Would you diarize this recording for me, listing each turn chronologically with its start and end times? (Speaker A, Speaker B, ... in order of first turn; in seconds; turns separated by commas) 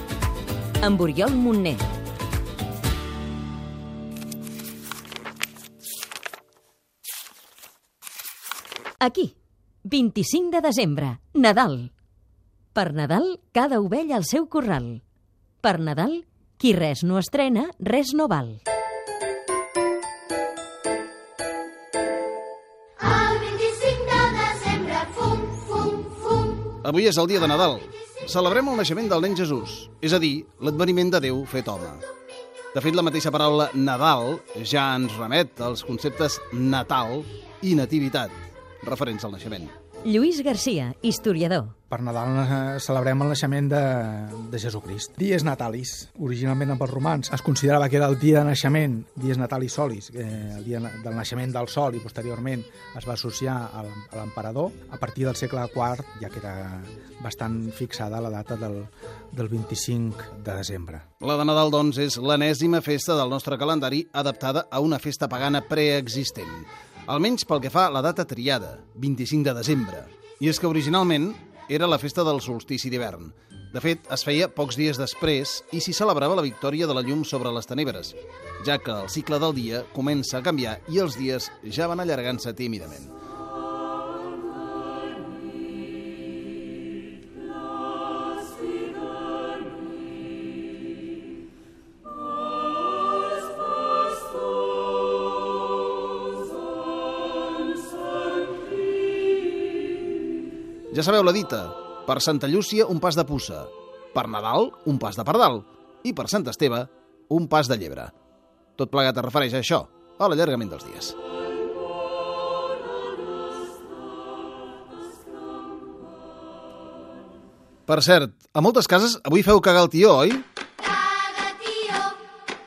Speaker A: 0.8-1.8, Speaker A: 9.0-11.9, Speaker A: 12.7-15.0, Speaker A: 15.6-18.6, Speaker B: 23.3-25.4, Speaker C: 26.7-32.0, Speaker C: 32.7-39.7, Speaker A: 40.0-41.7, Speaker D: 41.9-61.1, Speaker C: 61.2-83.1, Speaker C: 100.9-108.1, Speaker C: 108.8-111.2, Speaker C: 117.9-120.5, Speaker B: 121.5-121.8